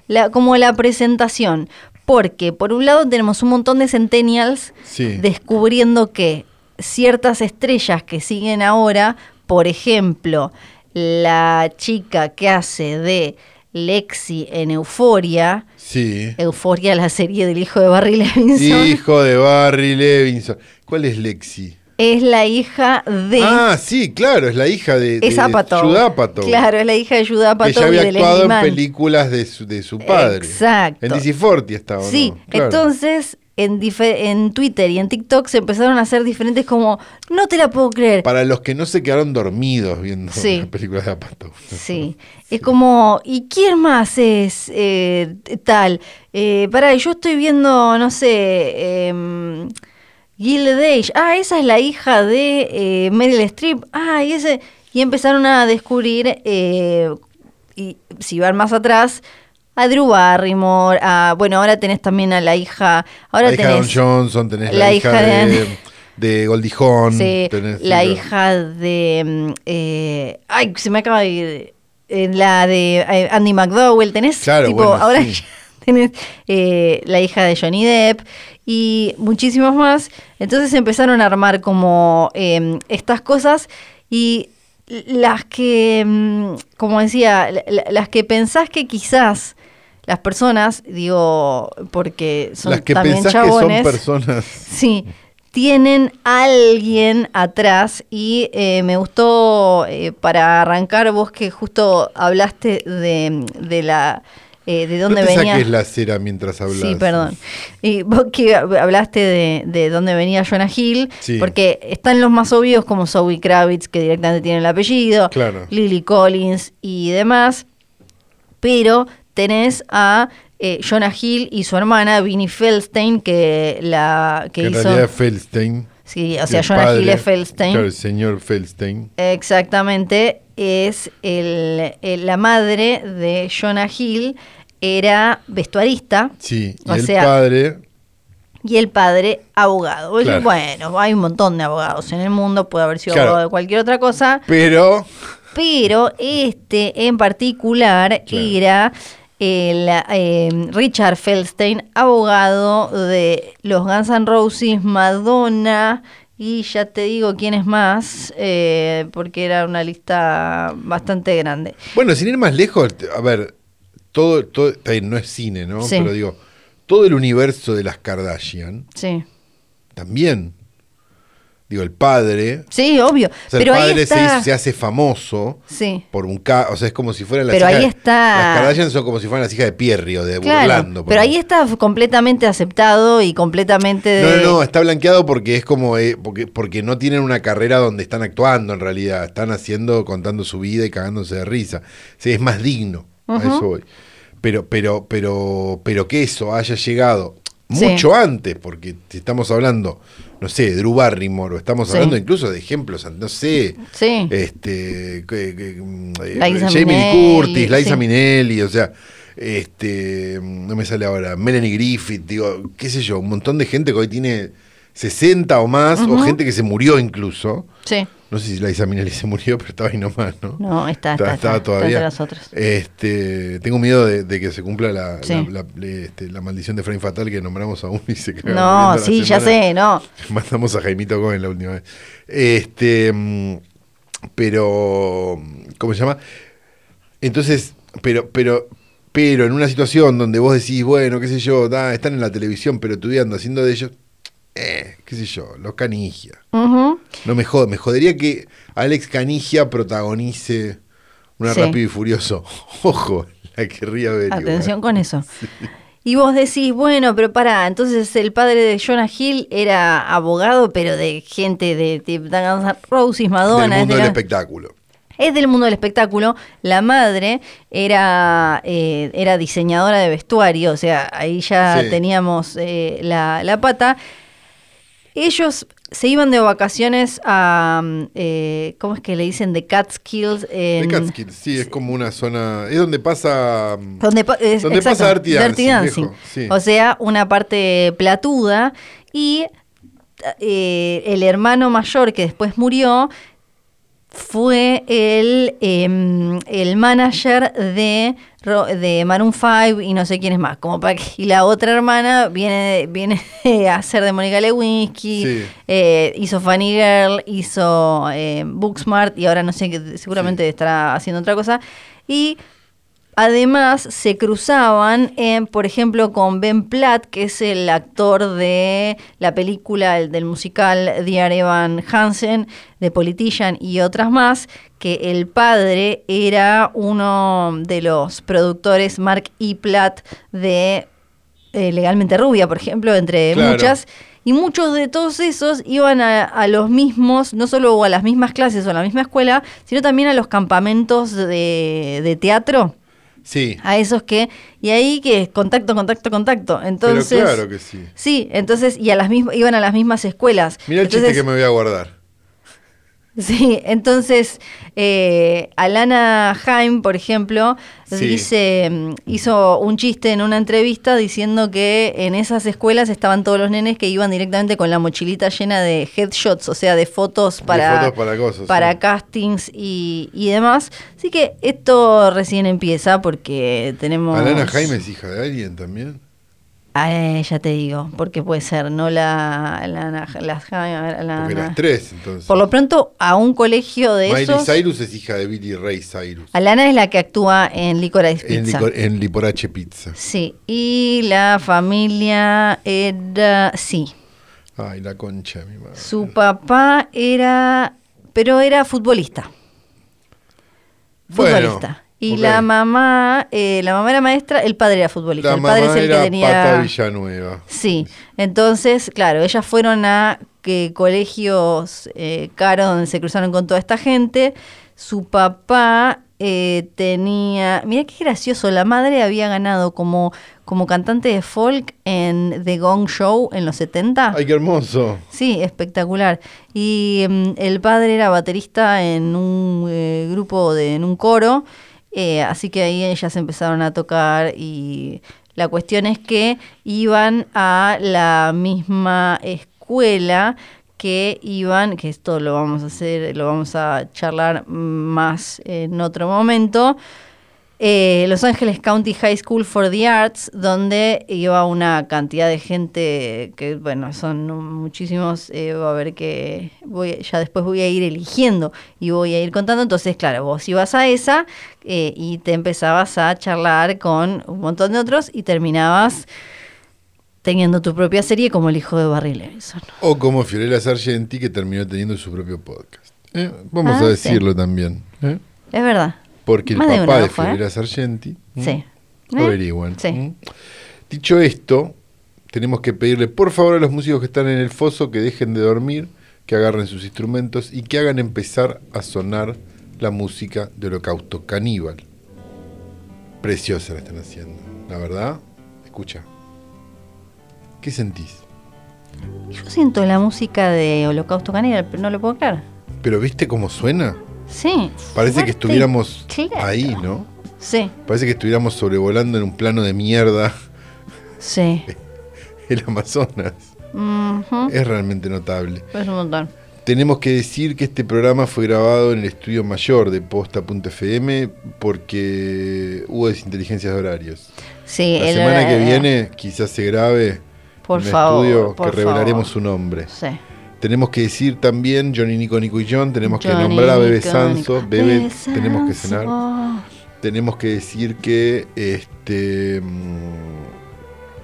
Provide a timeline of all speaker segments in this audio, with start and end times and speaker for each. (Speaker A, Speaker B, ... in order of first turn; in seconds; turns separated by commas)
Speaker A: 0.1-15.7, Speaker B: 4.8-5.2, Speaker B: 15.8-16.4, Speaker A: 16.4-19.0, Speaker B: 18.5-21.8, Speaker A: 22.0-23.6, Speaker B: 23.4-26.6, Speaker A: 25.2-28.8, Speaker B: 27.6-32.9, Speaker A: 30.0-31.2, Speaker A: 32.0-38.2, Speaker B: 38.2-42.7, Speaker A: 40.3-40.7, Speaker A: 41.7-49.7, Speaker A: 50.4-57.2, Speaker A: 57.8-59.2, Speaker A: 59.8-64.0, Speaker B: 63.4-68.2, Speaker A: 64.7-65.7, Speaker A: 67.1-89.5, Speaker B: 74.4-75.4, Speaker A: 90.1-94.0, Speaker B: 92.6-94.7, Speaker A: 94.6-105.7, Speaker B: 105.1-107.3, Speaker A: 106.7-117.6, Speaker B: 111.2-111.5, Speaker B: 115.3-115.7, Speaker A: 118.6-125.1, Speaker B: 124.6-125.9, Speaker A: 126.0-127.8, Speaker B: 126.5-129.1, Speaker A: 129.2-136.3, Speaker B: 136.4-137.8, Speaker A: 136.8-137.3, Speaker A: 138.6-144.5, Speaker B: 140.2-140.5, Speaker B: 143.1-143.4, Speaker B: 144.5-145.1, Speaker A: 145.5-161.8, Speaker B: 148.3-148.5, Speaker B: 161.9-163.5, Speaker B: 164.1-168.9, Speaker A: 165.8-166.1, Speaker A: 168.9-169.2, Speaker B: 169.9-170.5, Speaker B: 171.7-172.7, Speaker A: 172.7-174.5, Speaker B: 173.5-175.6, Speaker A: 175.7-176.0, Speaker B: 176.1-181.3, Speaker A: 177.5-178.8, Speaker A: 180.4-184.6, Speaker B: 184.2-193.8, Speaker A: 193.3-193.6, Speaker B: 194.4-217.7, Speaker A: 197.7-198.1, Speaker A: 201.9-202.2, Speaker A: 203.9-204.3, Speaker A: 206.3-208.0, Speaker A: 215.9-216.4, Speaker A: 217.8-218.1, Speaker B: 218.3-220.6, Speaker A: 220.6-222.5, Speaker B: 221.2-229.6, Speaker A: 228.4-230.1, Speaker B: 230.1-233.6, Speaker B: 234.3-236.2, Speaker B: 237.2-243.9, Speaker B: 244.5-246.4, Speaker A: 246.5-247.1, Speaker B: 247.2-250.8, Speaker B: 251.4-254.7, Speaker A: 251.4-251.8, Speaker A: 254.3-255.3, Speaker B: 255.4-255.7, Speaker A: 256.0-264.2, Speaker B: 263.5-264.7, Speaker A: 265.2-274.0, Speaker B: 271.6-272.0, Speaker A: 275.1-281.1, Speaker B: 280.8-284.0, Speaker A: 284.0-289.5, Speaker B: 284.6-286.6, Speaker A: 290.2-293.1, Speaker A: 294.1-312.4, Speaker B: 305.2-305.5, Speaker A: 313.2-330.9, Speaker A: 331.5-342.7, Speaker B: 333.3-333.8, Speaker B: 343.2-343.6, Speaker A: 343.6-347.4, Speaker B: 346.8-347.9, Speaker A: 347.9-351.2, Speaker B: 350.7-351.9, Speaker A: 353.2-367.9, Speaker B: 357.9-358.3, Speaker B: 367.4-368.8, Speaker A: 368.5-374.8, Speaker B: 374.1-376.0, Speaker A: 376.7-381.6, Speaker B: 381.2-382.4, Speaker A: 382.3-384.6, Speaker B: 384.1-386.3, Speaker A: 386.3-388.7, Speaker B: 388.2-389.9, Speaker A: 389.9-393.9, Speaker B: 394.6-396.1, Speaker A: 395.8-399.3, Speaker A: 401.1-406.7, Speaker B: 401.1-402.5, Speaker B: 405.2-407.9, Speaker A: 407.5-424.2, Speaker B: 424.1-425.0, Speaker A: 425.1-446.8, Speaker A: 447.6-466.1, Speaker A: 467.2-469.8, Speaker B: 469.8-475.2, Speaker A: 473.6-474.2, Speaker A: 475.5-477.4, Speaker B: 476.2-478.6, Speaker A: 478.4-480.0, Speaker B: 479.1-480.2, Speaker B: 480.9-481.8, Speaker B: 482.3-491.8, Speaker B: 493.2-496.1, Speaker B: 497.6-498.2, Speaker A: 499.3-502.4, Speaker B: 502.8-504.0, Speaker A: 504.3-506.8, Speaker B: 504.9-507.1, Speaker A: 507.4-507.7, Speaker B: 507.8-510.3, Speaker A: 511.2-511.7, Speaker B: 512.5-513.5, Speaker A: 513.7-514.5, Speaker B: 514.5-515.7, Speaker A: 515.7-516.3, Speaker B: 516.6-524.3, Speaker A: 524.6-525.9, Speaker B: 525.0-529.9, Speaker A: 527.6-529.3, Speaker A: 529.9-530.2, Speaker B: 530.6-536.1, Speaker A: 533.0-536.6, Speaker B: 537.0-540.5